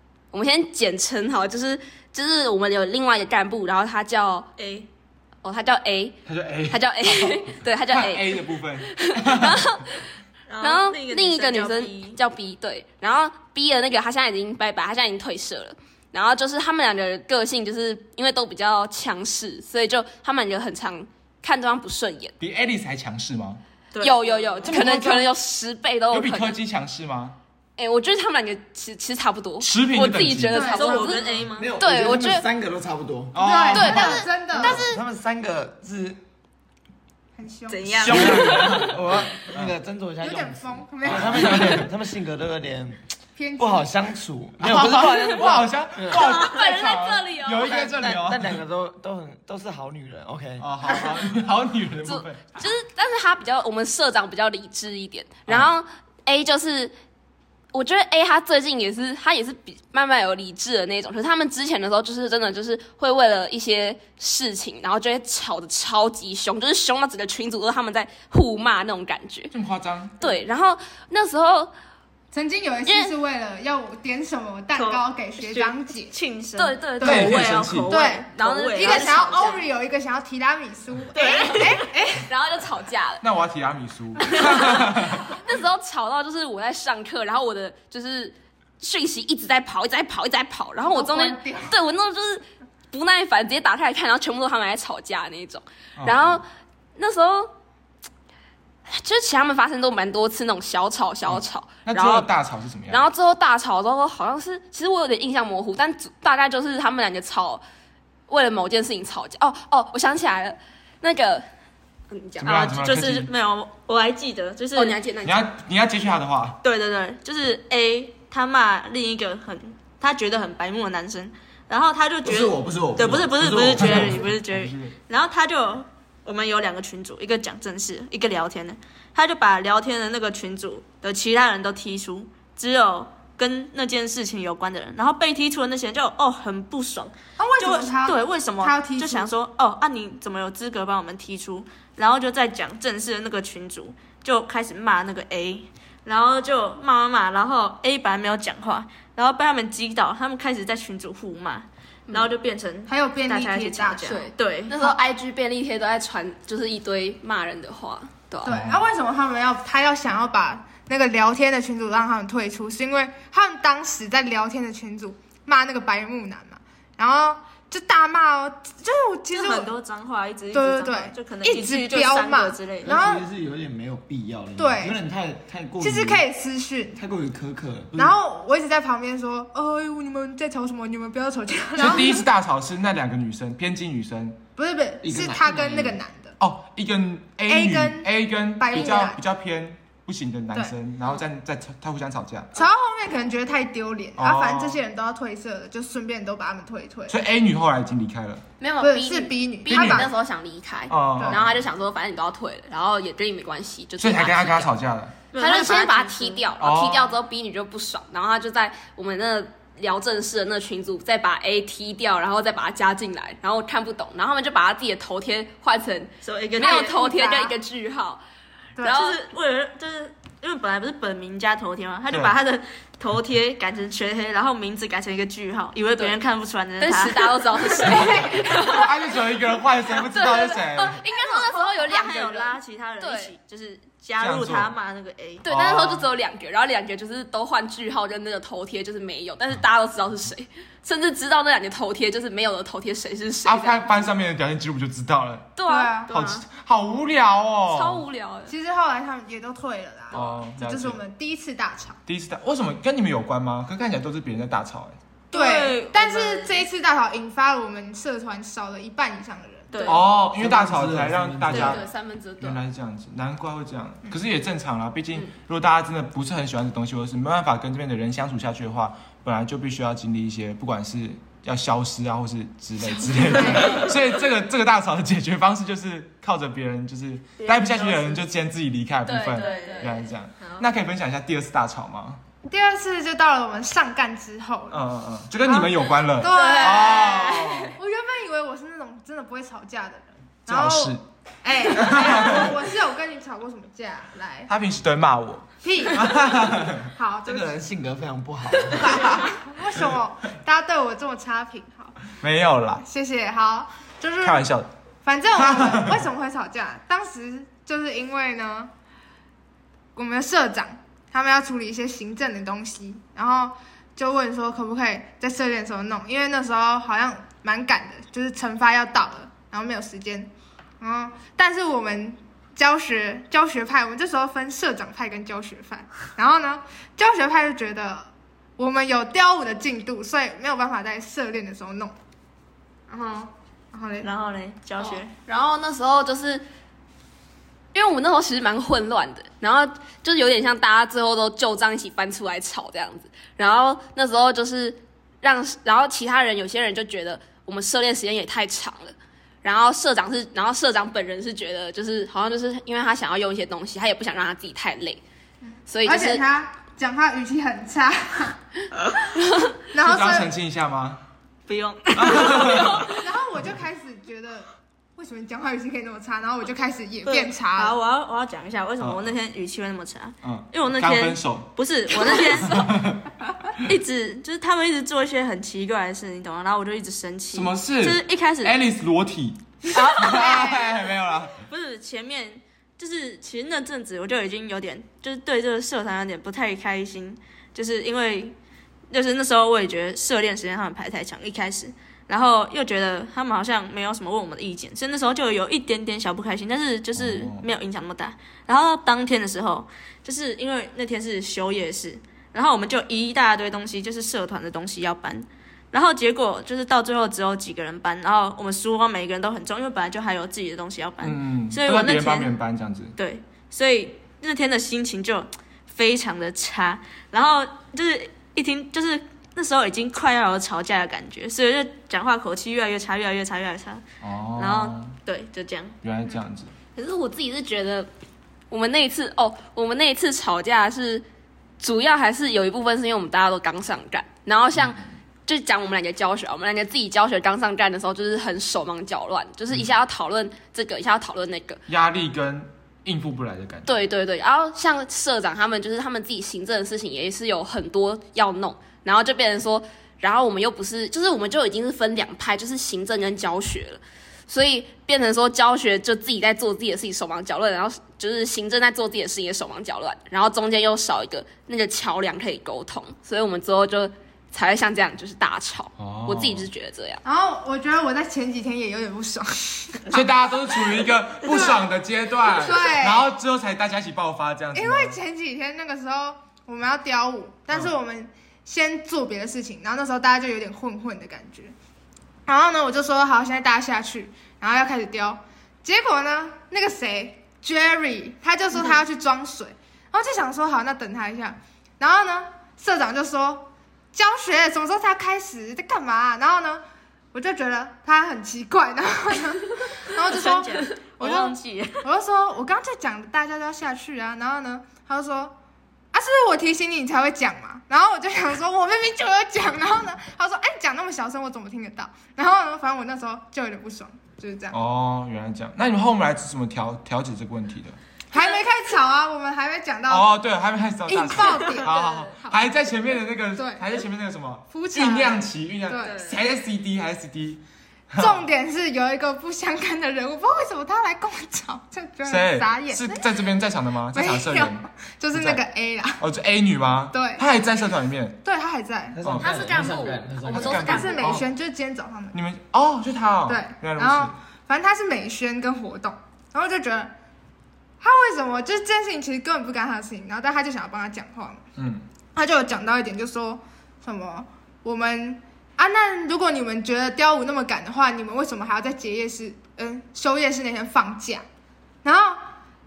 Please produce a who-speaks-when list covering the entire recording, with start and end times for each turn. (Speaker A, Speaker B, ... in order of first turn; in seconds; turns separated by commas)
Speaker A: 0.3-4.5, Speaker B: 4.6-4.9, Speaker A: 5.4-6.2, Speaker C: 6.2-9.8, Speaker A: 6.7-10.0, Speaker B: 10.5-12.2, Speaker A: 10.6-22.3, Speaker C: 22.4-23.6, Speaker B: 23.9-24.8, Speaker A: 24.0-26.6, Speaker C: 24.6-25.2, Speaker C: 26.1-27.4, Speaker A: 27.8-32.5, Speaker C: 29.6-30.7, Speaker D: 30.5-31.3, Speaker B: 30.7-31.7, Speaker E: 31.5-33.4, Speaker C: 33.3-34.1, Speaker D: 33.4-34.8, Speaker A: 33.7-35.0, Speaker B: 33.8-34.9, Speaker E: 34.6-36.2, Speaker D: 37.4-38.0, Speaker B: 37.7-38.8, Speaker C: 38.0-39.0, Speaker E: 38.0-43.0, Speaker D: 40.2-41.9, Speaker C: 41.0-41.8, Speaker D: 43.4-44.0, Speaker E: 43.6-46.2, Speaker C: 44.6-48.6, Speaker A: 46.1-47.9, Speaker E: 47.8-50.7, Speaker C: 50.6-52.6, Speaker A: 52.0-56.9, Speaker A: 57.7-69.5, Speaker C: 69.5-70.2, Speaker A: 70.2-71.7, Speaker D: 72.3-76.1, Speaker A: 72.8-73.1, Speaker B: 74.7-79.6, Speaker A: 76.6-79.6, Speaker D: 77.0-77.3, Speaker C: 77.0-77.9, Speaker D: 77.9-82.3, Speaker B: 81.1-81.9, Speaker A: 81.3-83.2, Speaker C: 83.2-85.4, Speaker A: 84.3-96.4, Speaker D: 90.9-91.8, Speaker C: 96.0-96.4, Speaker A: 97.0-97.5, Speaker A: 98.9-102.3, Speaker C: 101.3-103.0, Speaker A: 102.9-107.6, Speaker A: 108.3-111.4, Speaker A: 112.1-112.7, Speaker C: 112.4-113.3, Speaker B: 112.4-115.0, Speaker A: 114.8-115.5, Speaker C: 115.2-116.6, Speaker B: 116.6-154.7, Speaker E: 122.2-124.2, Speaker C: 123.8-124.9, Speaker D: 137.4-139.3, Speaker D: 152.9-154.1, Speaker A: 154.1-158.5, Speaker D: 158.4-169.7, Speaker C: 158.4-158.8, Speaker B: 169.3-172.9, Speaker D: 170.5-173.3, Speaker E: 172.8-176.2, Speaker D: 174.6-175.0, Speaker D: 175.8-177.0, Speaker E: 177.0-178.2, Speaker D: 177.9-182.2, Speaker C: 181.8-184.4, Speaker D: 184.6-186.3, Speaker E: 185.0-186.0, Speaker C: 186.4-192.6, Speaker D: 187.5-189.2, Speaker D: 192.5-197.2, Speaker C: 194.2-194.8, Speaker C: 197.1-198.4, Speaker A: 198.6-204.7, Speaker D: 198.8-200.1, Speaker C: 199.7-200.1, Speaker C: 200.9-201.6, Speaker C: 204.0-205.2, Speaker B: 205.3-206.4, Speaker A: 205.3-218.2, Speaker C: 206.6-207.1, Speaker B: 216.2-216.9, Speaker D: 216.6-217.5, Speaker A: 218.8-219.2, Speaker B: 218.8-228.1, Speaker C: 222.1-222.3, Speaker A: 226.8-228.9, Speaker C: 228.0-231.0, Speaker A: 230.0-233.3, Speaker B: 231.1-235.4, Speaker C: 234.2-234.7, Speaker A: 235.4-243.9, Speaker C: 235.4-236.1, Speaker C: 243.4-245.6, Speaker A: 245.6-246.4, Speaker D: 245.7-246.1, Speaker C: 246.1-248.0, Speaker A: 247.7-248.5, Speaker D: 248.5-252.0, Speaker C: 250.1-251.0, Speaker C: 252.1-255.0, Speaker B: 255.3-256.6, Speaker D: 255.3-259.9, Speaker B: 259.7-260.0, Speaker C: 259.9-261.8, Speaker E: 260.3-261.8, Speaker A: 261.5-262.6, Speaker C: 262.4-282.2, Speaker D: 273.4-273.7, Speaker B: 277.4-278.2, Speaker A: 279.1-280.1, Speaker B: 279.3-280.6, Speaker D: 282.5-284.8, Speaker C: 284.7-287.7, Speaker D: 285.4-294.5, Speaker A: 286.3-287.7, Speaker C: 290.5-291.0, Speaker C: 291.8-292.5, Speaker C: 294.5-296.9, Speaker D: 295.6-297.6, Speaker E: 297.2-299.1, Speaker D: 298.8-302.0, Speaker C: 298.8-299.3, Speaker C: 302.2-302.8, Speaker D: 302.8-304.4, Speaker C: 304.2-304.7, Speaker D: 305.0-308.7, Speaker C: 305.3-306.1, Speaker D: 309.9-320.3, Speaker D: 320.8-331.9, Speaker D: 332.9-334.1, Speaker B: 334.0-335.1, Speaker A: 334.8-336.4, Speaker A: 337.7-355.0, Speaker A: 355.7-356.2, Speaker D: 355.8-358.4, Speaker A: 359.1-359.5, Speaker D: 359.7-360.3, Speaker C: 359.8-361.0, Speaker B: 361.5-362.9, Speaker C: 361.9-362.9, Speaker A: 362.4-362.9, Speaker D: 362.9-367.8, Speaker B: 367.0-372.6, Speaker C: 368.8-369.1, Speaker C: 370.2-371.5, Speaker A: 371.9-372.7, Speaker C: 372.3-373.0, Speaker B: 373.6-378.6, Speaker C: 377.3-381.4, Speaker B: 379.7-380.6, Speaker D: 380.0-380.8, Speaker B: 381.4-388.4, Speaker B: 388.9-412.3, Speaker C: 396.9-397.4, Speaker C: 411.0-412.9, Speaker B: 413.0-423.8, Speaker C: 424.0-424.9, Speaker B: 424.4-425.8, Speaker C: 425.8-426.5, Speaker A: 426.7-427.9, Speaker A: 428.5-431.0, Speaker A: 431.6-441.6, Speaker C: 434.5-434.8, Speaker C: 441.7-443.8, Speaker A: 443.6-467.0, Speaker C: 465.8-466.5, Speaker D: 467.0-470.1, Speaker C: 469.9-475.0, Speaker D: 471.2-471.6, Speaker D: 472.3-473.1, Speaker D: 474.5-481.5, Speaker D: 482.3-496.6, Speaker D: 497.1-505.3, Speaker B: 500.0-501.9, Speaker D: 505.9-514.6, Speaker C: 514.5-517.8, Speaker D: 518.1-520.1, Speaker C: 519.9-528.3, Speaker D: 520.9-522.4, Speaker A: 521.7-522.1, Speaker D: 523.4-523.6, Speaker D: 524.5-526.0, Speaker A: 525.9-526.1, Speaker D: 528.0-533.0, Speaker C: 532.0-535.4, Speaker D: 533.9-536.0, Speaker C: 536.0-538.2, Speaker D: 536.9-537.2, Speaker D: 538.2-539.0, Speaker E: 538.9-540.7, Speaker C: 539.0-539.3, Speaker A: 539.2-541.2, Speaker C: 540.3-541.3, Speaker D: 540.6-542.1, Speaker C: 542.1-544.1, Speaker D: 543.3-546.9, Speaker D: 547.8-551.4, Speaker C: 551.6-551.8, Speaker D: 552.1-561.2, Speaker D: 561.8-562.2